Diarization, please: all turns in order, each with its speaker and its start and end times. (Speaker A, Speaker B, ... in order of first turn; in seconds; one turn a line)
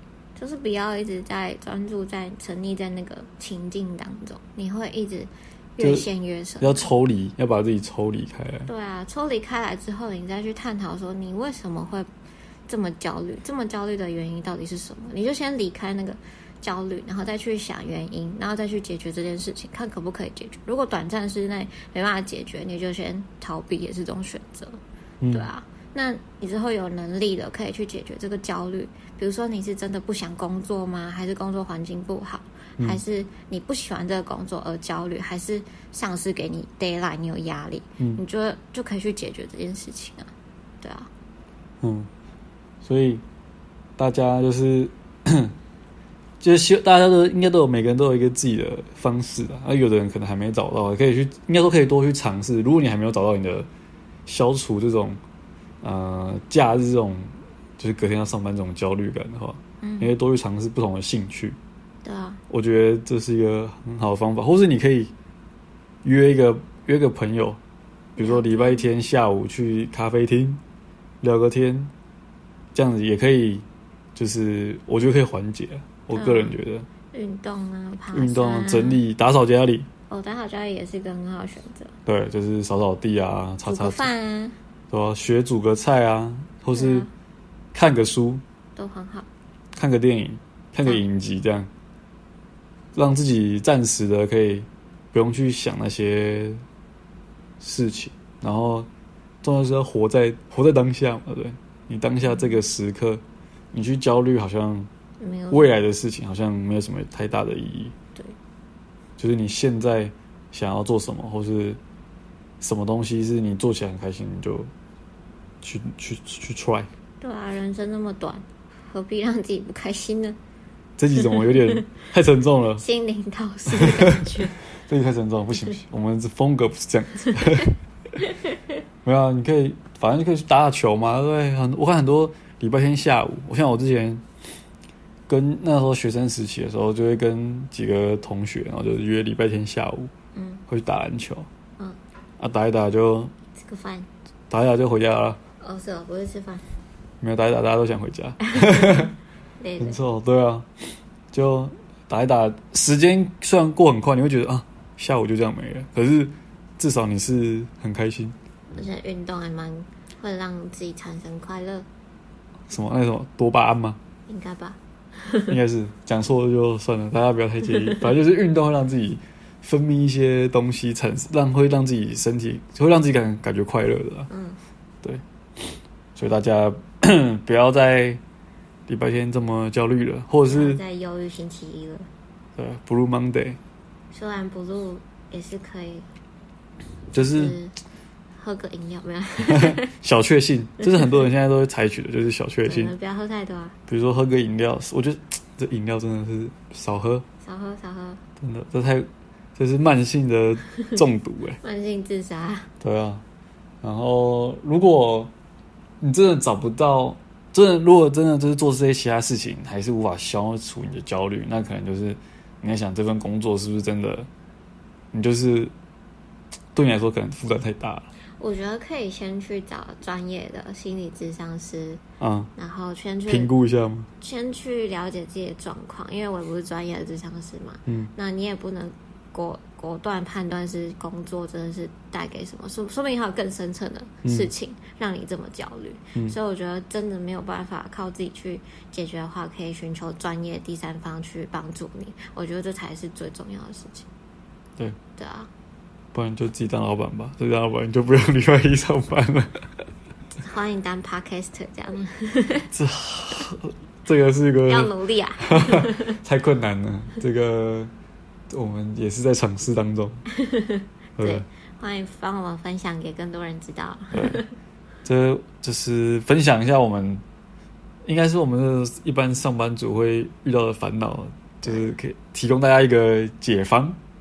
Speaker A: 0.3-6.9
Speaker B: 5.8-6.1
Speaker B: 6.6-8.7
Speaker A: 8.7-12.1
Speaker A: 12.7-24.8
Speaker B: 25.2-25.5
Speaker A: 25.3-41.1
Speaker B: 41.8-42.1
Speaker B: 42.8-43.2
Speaker B: 44.0-45.5
Speaker B: 46.4-53.7
Speaker B: 54.3-55.2
Speaker B: 55.8-61.6
Speaker A: 59.8-60.1
Speaker A: 62.0-62.4
Speaker B: 62.5-65.1
Speaker B: 66.0-67.6
Speaker A: 68.2-68.9
Speaker B: 68.2-70.6
Speaker B: 71.2-71.9
Speaker B: 72.7-76.9
Speaker A: 76.1-76.6
Speaker A: 77.1-79.0
Speaker B: 78.1-79.9
Speaker A: 80.1-82.0
Speaker B: 82.0-84.1
Speaker A: 83.6-84.6
Speaker B: 84.9-87.1
Speaker A: 86.7-87.1
Speaker B: 87.7-88.4
Speaker A: 88.8-89.3
Speaker B: 89.8-91.7
Speaker B: 92.9-96.6
Speaker B: 97.6-98.9
Speaker B: 99.4-103.2
Speaker A: 102.2-102.6
Speaker B: 103.7-104.9
Speaker A: 105.2-105.8
Speaker B: 105.5-107.9
Speaker B: 109.2-111.8
Speaker B: 112.6-114.7
Speaker B: 115.6-116.9
Speaker A: 117.2-120.4
Speaker B: 121.0-122.8
Speaker A: 121.2-121.8
Speaker A: 122.8-124.6
Speaker B: 124.5-127.8
Speaker B: 129.0-134.2
Speaker B: 135.3-140.1
Speaker A: 140.3-140.6
Speaker B: 140.7-141.5
Speaker B: 142.4-143.3
Speaker A: 143.5-144.1
Speaker B: 144.5-145.4
Speaker A: 145.6-146.7
Speaker B: 147.2-149.1
Speaker A: 148.6-149.1
Speaker A: 149.6-150.0
Speaker B: 149.8-158.3
Speaker A: 158.7-161.9
Speaker B: 162.7-164.0
Speaker A: 164.3-165.5
Speaker B: 165.5-174.3
Speaker A: 174.3-174.6
Speaker B: 175.0-178.2
Speaker B: 178.9-180.8
Speaker A: 180.5-182.1
Speaker B: 182.6-183.6
Speaker A: 184.1-186.1
Speaker B: 187.1-187.6
Speaker A: 187.1-187.8
Speaker A: 188.3-189.9
Speaker B: 189.5-192.9
Speaker A: 192.7-193.8
Speaker B: 193.9-197.2
Speaker A: 197.4-198.2
Speaker B: 198.4-201.6
Speaker A: 201.6-202.7
Speaker B: 202.8-203.2
Speaker B: 203.8-205.3
Speaker B: 206.0-214.3
Speaker B: 215.1-215.7
Speaker B: 216.7-218.1
Speaker A: 218.4-222.0
Speaker B: 222.2-222.5
Speaker A: 222.6-223.5
Speaker B: 223.3-224.1
Speaker A: 224.2-244.1
Speaker A: 245.2-245.5
Speaker B: 246.1-249.7
Speaker A: 250.4-252.7
Speaker B: 252.7-257.9
Speaker A: 254.7-256.2
Speaker B: 258.5-260.2
Speaker A: 260.3-264.5
Speaker B: 261.2-261.4
Speaker B: 264.1-264.4
Speaker B: 265.0-267.2
Speaker B: 268.0-274.0